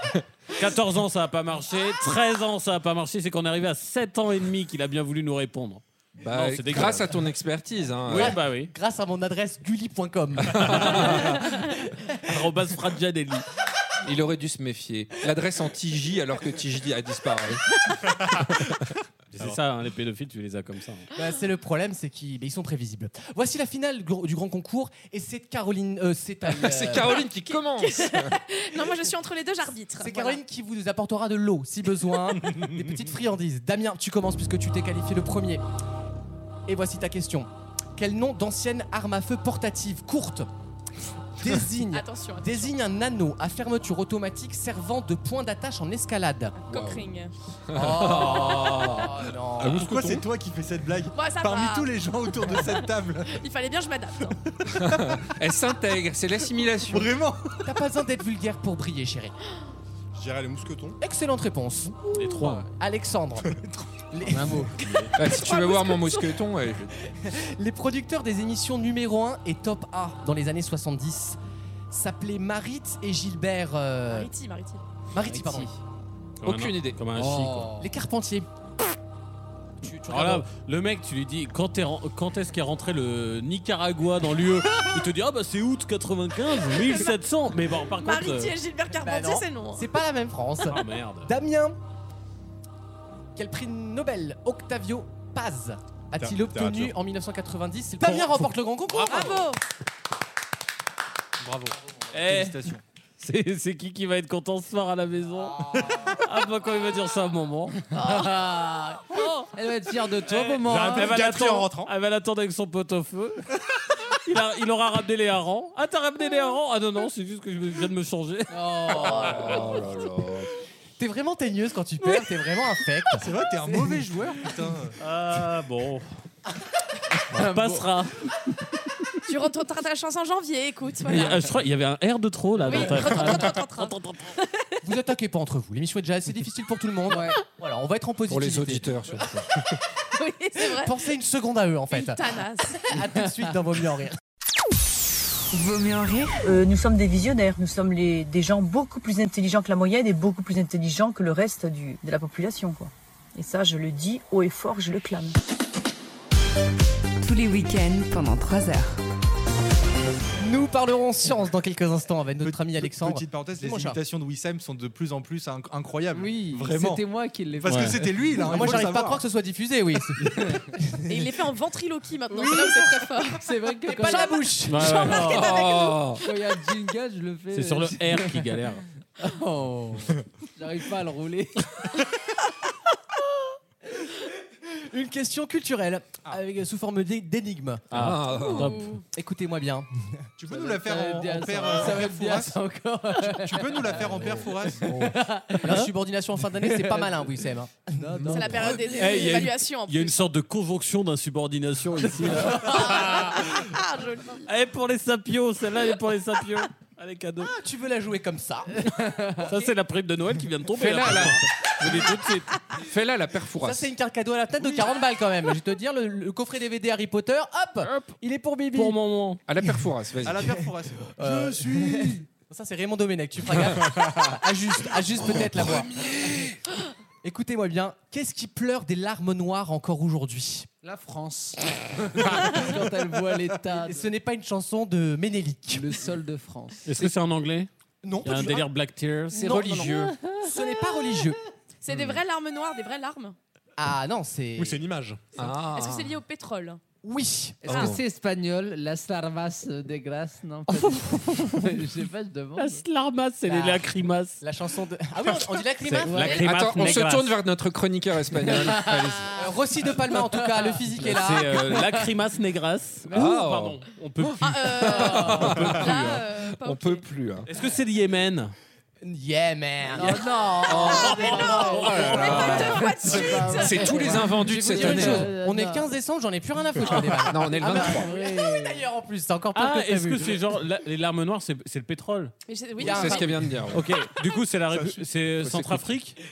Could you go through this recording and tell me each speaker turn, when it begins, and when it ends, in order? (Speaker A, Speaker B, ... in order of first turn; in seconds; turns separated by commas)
Speaker A: 0.5-7.2, Speaker B: 6.2-8.4, Speaker A: 8.1-8.7, Speaker C: 8.1-12.3, Speaker B: 10.5-11.4, Speaker A: 10.6-11.2, Speaker A: 12.2-13.4, Speaker B: 14.0-17.6, Speaker A: 19.3-21.1, Speaker C: 21.1-27.2, Speaker B: 26.4-28.4, Speaker D: 27.2-30.4, Speaker C: 30.0-35.6, Speaker C: 36.7-40.5, Speaker C: 41.4-46.6, Speaker D: 41.9-42.8, Speaker D: 46.6-47.3, Speaker B: 46.7-47.1, Speaker B: 47.7-49.2, Speaker C: 47.7-50.0, Speaker E: 49.6-50.2, Speaker F: 49.7-53.4, Speaker D: 51.1-54.4, Speaker B: 54.8-57.1, Speaker F: 56.9-57.6, Speaker C: 57.6-59.3, Speaker E: 60.1-61.0, Speaker C: 61.0-62.0, Speaker A: 62.1-62.7, Speaker C: 62.8-63.5, Speaker C: 64.1-65.1, Speaker G: 64.2-64.9, Speaker B: 65.1-66.9, Speaker D: 65.3-66.4, Speaker C: 67.1-71.4, Speaker C: 71.9-74.3, Speaker D: 74.1-74.8, Speaker C: 75.1-75.7, Speaker G: 75.2-75.7, Speaker B: 76.4-77.0, Speaker A: 76.4-77.8, Speaker G: 77.2-77.9, Speaker C: 77.8-78.5, Speaker C: 79.8-80.5, Speaker A: 80.0-88.5, Speaker D: 87.9-89.9, Speaker C: 89.0-91.8, Speaker A: 90.7-91.3, Speaker C: 93.3-99.5, Speaker E: 96.2-96.9, Speaker D: 98.9-99.6, Speaker F: 101.4-102.8, Speaker A: 102.1-102.6, Speaker A: 103.2-107.8, Speaker G: 107.9-111.2, Speaker D: 109.1-109.5, Speaker F: 110.4-111.9, Speaker A: 110.6-113.5, Speaker E: 111.1-111.7, Speaker A: 114.2-119.2, Speaker G: 118.5-119.7, Speaker B: 119.1-120.5, Speaker C: 121.0-124.0, Speaker F: 123.2-125.0, Speaker A: 125.0-126.0, Speaker G: 127.3-127.9, Speaker A: 127.3-128.3, Speaker D: 129.3-131.5, Speaker A: 131.1-134.3, Speaker D: 132.6-134.8, Speaker C: 132.7-133.6, Speaker C: 134.8-139.2, Speaker G: 137.1-137.4, Speaker B: 138.3-139.6, Speaker D: 140.1-141.1, Speaker C: 140.6-144.2, Speaker D: 141.9-142.9, Speaker H: 145.5-146.5, Speaker I: 146.4-155.3, Speaker H: 157.2-159.0, Speaker C: 160.4-164.0, Speaker F: 162.4-167.0, Speaker G: 166.1-168.6, Speaker F: 167.6-169.2, Speaker A: 167.6-168.0, Speaker C: 168.4-171.3, Speaker G: 170.3-170.6, Speaker D: 171.1-176.1, Speaker G: 172.3-174.3, Speaker C: 173.9-175.4, Speaker A: 174.7-175.4, Speaker G: 174.9-175.5, Speaker B: 175.3-176.2, Speaker G: 176.2-178.4, Speaker A: 177.5-178.8, Speaker G: 179.2-181.7, Speaker C: 184.9-187.9, Speaker A: 187.9-188.9, Speaker B: 187.9-188.9, Speaker D: 188.3-189.0, Speaker C: 189.1-190.2, Speaker F: 190.4-192.6, Speaker G: 190.5-195.9, Speaker F: 193.2-194.9, Speaker C: 194.9-198.6, Speaker G: 196.6-198.8, Speaker A: 198.2-203.4, Speaker D: 198.3-200.2, Speaker D: 202.6-204.4, Speaker A: 204.4-207.5, Speaker C: 207.4-209.5, Speaker A: 209.4-212.5, Speaker B: 210.8-211.9, Speaker B: 212.7-213.9, Speaker C: 213.6-219.0, Speaker A: 218.7-219.4, Speaker B: 219.5-220.5, Speaker F: 220.2-222.2, Speaker C: 221.2-226.0, Speaker C: 227.2-230.7, Speaker G: 230.8-234.1, Speaker C: 233.7-235.8, Speaker G: 235.7-236.8, Speaker A: 236.8-237.7, Speaker C: 238.0-238.7, Speaker A: 238.2-239.5, Speaker C: 239.3-241.4, Speaker B: 239.3-240.1, Speaker D: 241.8-243.3, Speaker B: 241.9-242.2, Speaker C: 243.8-244.8, Speaker E: 244.6-245.3, Speaker B: 245.3-246.2, Speaker D: 245.4-246.8, Speaker C: 247.0-247.9, Speaker B: 247.7-248.0, Speaker G: 247.7-252.8, Speaker A: 250.9-251.7, Speaker A: 252.6-254.4, Speaker C: 253.4-253.9, Speaker C: 254.4-257.0, Speaker A: 255.8-257.4, Speaker G: 256.1-256.3, Speaker B: 256.4-259.4, Speaker G: 258.8-259.2, Speaker C: 259.3-262.1, Speaker G: 260.5-260.9, Speaker A: 261.0-266.2, Speaker B: 263.1-267.5, Speaker D: 264.4-267.1, Speaker A: 267.5-268.5, Speaker C: 269.0-271.9, Speaker G: 269.9-272.0, Speaker B: 270.6-275.3, Speaker D: 270.8-274.1, Speaker A: 270.9-272.9, Speaker G: 273.0-275.9, Speaker C: 273.9-280.4, Speaker B: 277.2-278.1, Speaker G: 277.5-278.8, Speaker A: 279.5-282.3, Speaker D: 282.5-283.4, Speaker B: 282.8-283.9, Speaker C: 282.8-283.6, Speaker A: 283.7-286.2, Speaker B: 285.4-285.9